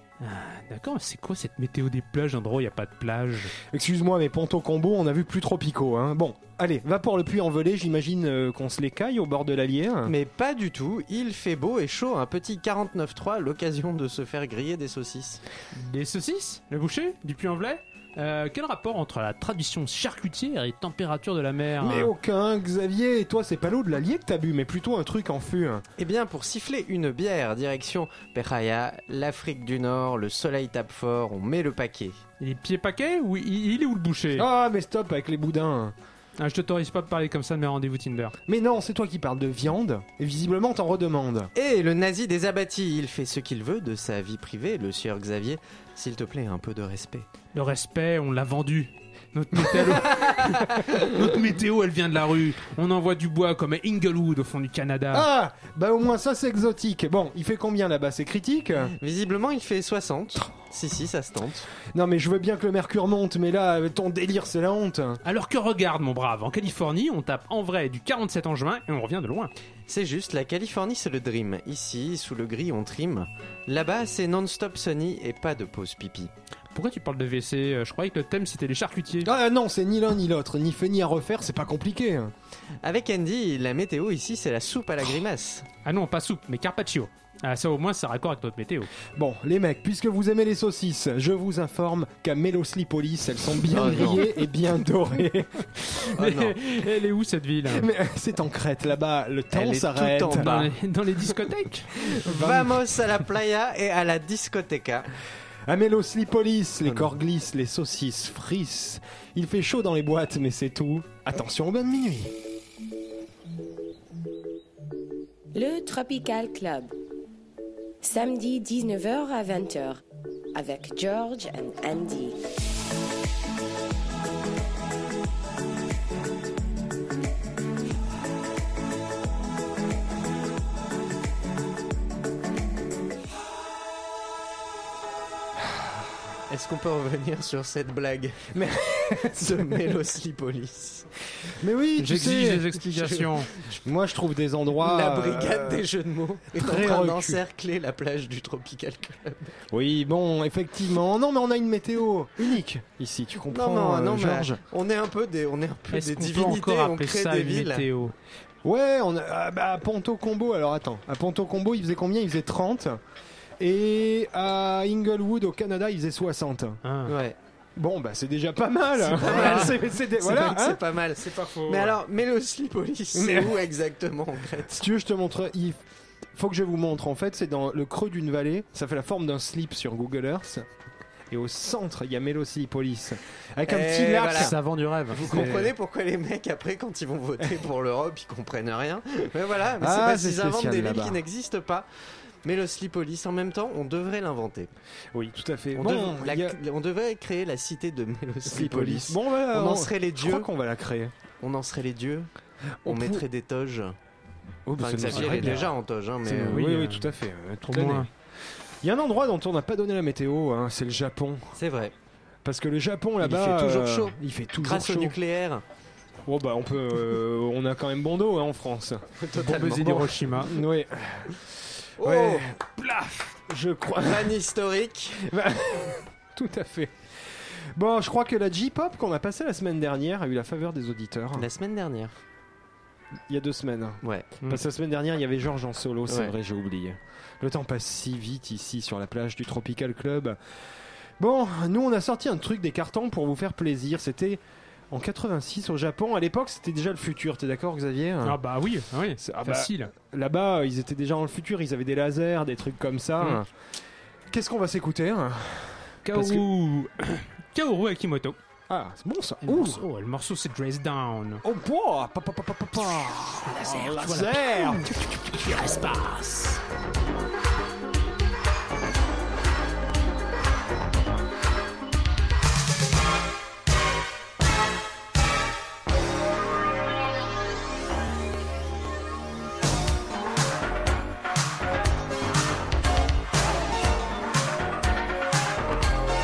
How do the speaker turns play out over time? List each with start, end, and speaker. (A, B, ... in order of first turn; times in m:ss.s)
0:00.2-0:03.5 A
0:03.7-0:10.1 B
0:10.0-0:15.4 C
0:15.7-0:22.1 A
0:21.8-0:25.8 B
0:26.0-0:32.2 C
0:32.4-0:34.4 A
0:34.4-0:35.9 B
0:36.4-0:38.4 A
0:38.5-0:41.5 B
0:41.5-0:47.3 C
0:47.5-0:55.3 A
0:49.7-0:51.1 C
0:55.1-0:58.9 B
0:59.0-1:01.7 C
1:01.9-1:05.2 B
1:05.2-1:09.5 A
1:09.9-1:16.3 C
1:16.7-1:19.3 A
1:19.2-1:22.3 B
1:22.8-1:25.7 C
1:25.8-1:28.9 A
1:29.1-1:35.8 B
1:33.7-1:34.2 C
1:35.9-1:37.9 A
1:36.2-1:36.6 C
1:37.6-1:40.5 B
1:39.5-1:40.7 C
1:40.3-1:42.3 A
1:42.2-1:42.8 B
1:42.2-1:45.1 C
1:45.7-1:52.3 B
1:46.8-1:47.1 C
1:55.5-1:56.9 D
1:58.0-2:00.0 D
2:00.5-2:02.4 D
2:16.5-2:18.6 C
2:18.5-2:19.9 B
2:19.1-2:21.1 C
2:21.6-2:22.7 B
2:22.0-2:23.5 A
2:22.8-2:23.2 C
2:23.8-2:25.9 B
2:24.8-2:29.5 C
2:26.5-2:27.4 B
2:29.7-2:34.6 B
2:33.5-2:37.9 C
2:35.9-2:38.1 A
2:38.6-2:43.0 B
2:43.6-2:46.8 B
2:46.8-2:47.1 A
2:47.1-2:47.4 C
2:47.8-2:50.8 B
2:49.0-2:54.8 C
2:49.2-2:49.7 A
2:51.2-2:51.9 A
2:53.1-2:53.6 B
2:54.6-2:55.8 B
2:56.3-3:00.6 B
3:01.3-3:04.6 B
3:03.7-3:04.5 C
3:04.3-3:05.6 A
3:05.1-3:11.9 C
3:05.2-3:05.7 B
3:09.8-3:11.2 B
3:12.4-3:14.7 C
3:15.1-3:16.6 B
3:15.7-3:20.5 C
3:18.4-3:21.1 B
3:21.4-3:22.3 C
3:22.8-3:23.2 B
3:22.8-3:24.0 C
3:24.6-3:25.7 B
3:24.8-3:26.6 C
3:25.0-3:25.7 A
3:26.2-3:28.1 B
3:26.5-3:27.1 A
3:27.6-3:28.1 A
3:28.8-3:31.6 B
3:31.6-3:31.9 C
3:32.4-3:35.2 B
3:33.2-3:35.6 C
3:36.2-3:39.0 B
3:39.2-3:40.1 C
3:39.4-3:40.6 A
3:39.8-3:44.4 B
3:42.0-3:42.5 C
3:44.0-3:45.3 C
3:45.3-3:51.5 B
3:51.4-3:52.2 C
3:53.3-4:00.4 B
3:54.0-3:54.3 C
3:56.1-3:56.3 C
4:01.2-4:08.4 B
4:08.2-4:09.9 A
4:09.2-4:13.5 B
4:14.3-4:16.4 B
4:16.1-4:18.4 A
4:18.7-4:19.8 B
4:19.4-4:21.4 A
4:21.4-4:26.0 B
4:23.5-4:26.6 A